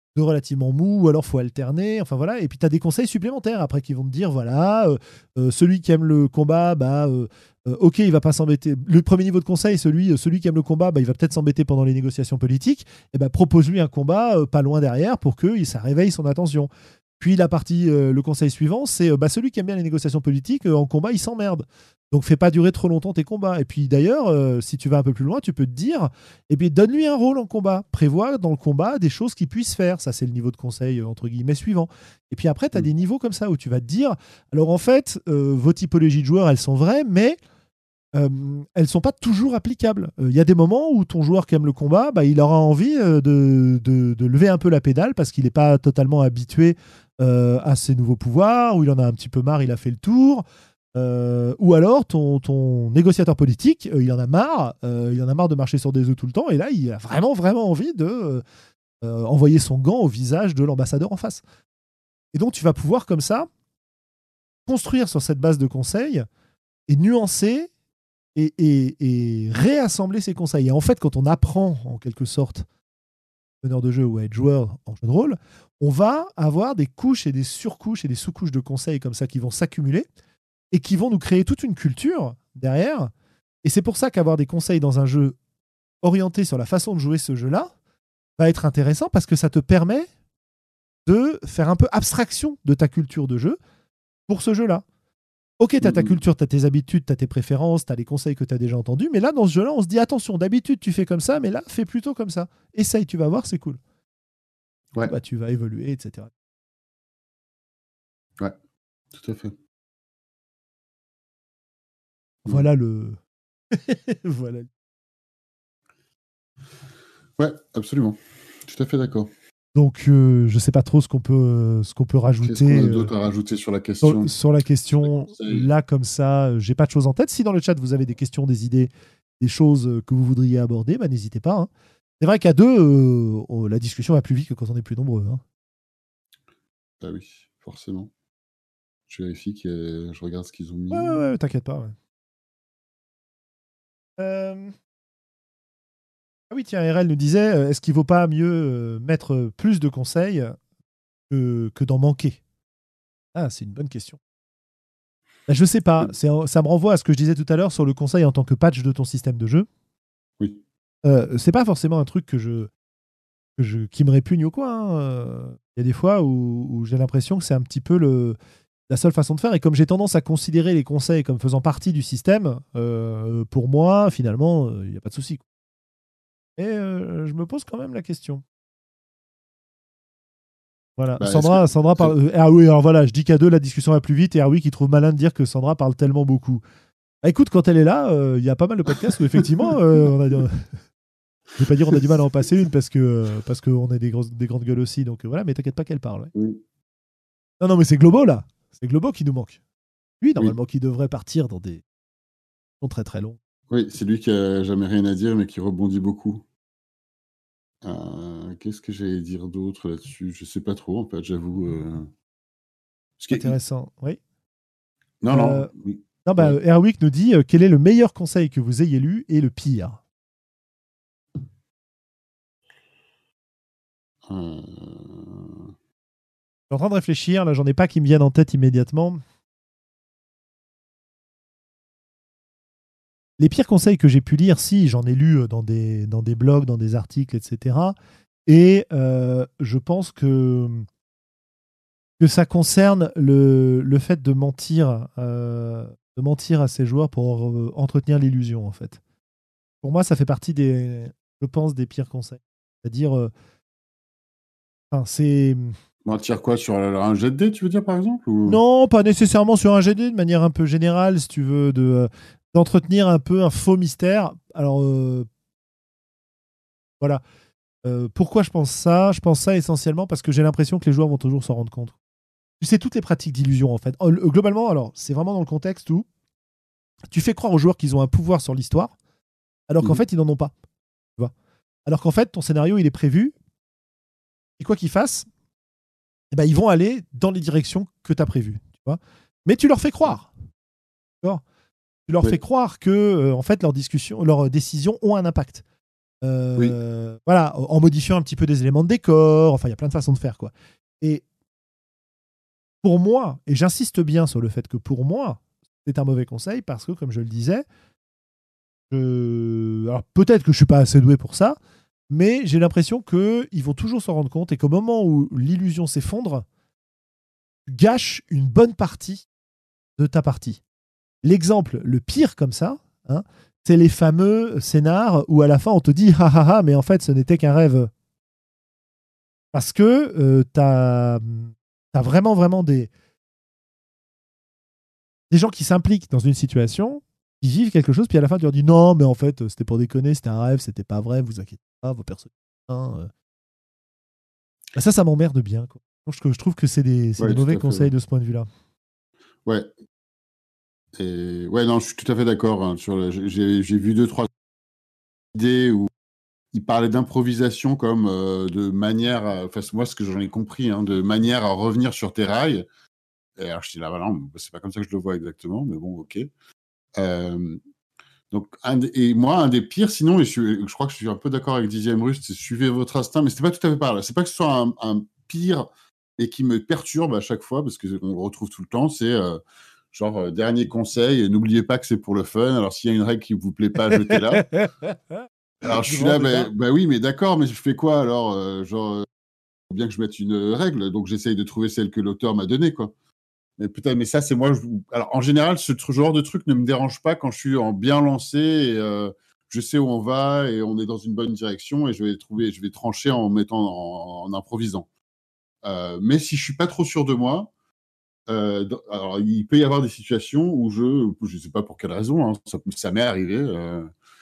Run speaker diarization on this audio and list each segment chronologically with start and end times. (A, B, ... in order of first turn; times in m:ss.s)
0:00.1-0:16.7 A
0:17.2-0:37.4 A
0:38.1-0:50.4 A
0:50.9-0:58.4 A
0:59.0-1:01.4 A
1:02.3-1:03.5 A
1:04.7-1:06.2 A
1:06.9-1:07.7 A
1:08.4-1:12.6 A
1:13.6-1:20.0 A
1:20.7-1:23.1 A
1:23.6-1:25.4 A
1:26.0-1:27.7 A
1:28.4-1:30.1 A
1:31.0-1:33.6 A
1:34.3-1:34.8 A
1:35.6-1:43.8 A
1:35.8-1:36.2 B
1:45.0-1:46.3 A
1:49.1-1:49.5 B
1:52.4-1:53.2 A
1:53.7-1:54.7 A
1:57.4-1:59.3 B
1:59.7-2:03.1 A
2:02.4-2:04.3 B
2:04.0-2:11.7 A
2:05.0-2:05.7 B
2:12.2-2:15.4 A
2:17.0-2:18.1 B
2:19.1-2:21.2 B
2:20.9-2:21.9 A
2:24.2-2:24.7 A
2:26.5-2:30.6 A
2:31.3-2:32.4 A
2:33.3-2:34.2 A
2:35.5-2:39.7 A
2:41.0-2:42.7 A
2:43.6-2:48.4 A
2:48.9-2:55.4 A
2:56.6-2:58.4 A
3:01.0-3:06.6 A
3:01.2-3:02.1 B
3:07.2-3:10.7 A
3:11.6-3:16.3 A
3:16.3-3:16.6 B
3:17.6-3:19.6 A
3:20.2-3:21.8 A
3:22.8-3:23.4 A
3:23.7-3:26.4 B
3:27.8-3:32.1 B
3:33.2-3:33.5 B
3:33.3-3:34.2 A
3:35.2-3:36.6 B
3:35.3-3:35.7 A
3:36.2-3:40.0 A
3:44.2-3:45.7 B
3:46.7-3:49.2 A
3:53.4-4:00.8 A
4:02.2-4:09.0 A
4:09.8-4:13.3 A
4:14.9-4:15.8 A
4:16.0-4:18.6 B
4:18.4-4:25.3 A
4:27.8-4:31.9 A
4:32.6-4:36.0 A
4:37.1-4:38.9 A
4:39.7-4:40.5 A
4:41.8-4:43.3 A
4:44.6-4:45.3 A
4:46.3-4:50.3 A
4:52.1-4:55.6 A
4:56.2-5:01.2 A
5:02.8-5:07.6 A
5:08.9-5:11.6 A
5:12.1-5:16.4 A
5:17.6-5:19.2 A
5:20.0-5:20.6 A
5:21.2-5:27.9 A
5:29.5-5:32.9 A
5:35.3-5:43.1 A
5:44.8-5:48.5 A
5:47.2-5:47.9 B
5:50.9-5:54.3 B
5:55.3-5:55.9 B
5:56.5-6:02.6 B
6:03.4-6:06.3 B
6:07.0-6:07.6 B
6:08.3-6:19.4 B
6:19.9-6:24.5 B
6:24.1-6:24.9 A
6:25.6-6:29.0 B
6:25.6-6:26.5 A
6:29.7-6:32.9 B
6:33.6-6:44.9 B
6:45.6-6:47.5 B
6:48.3-6:53.9 B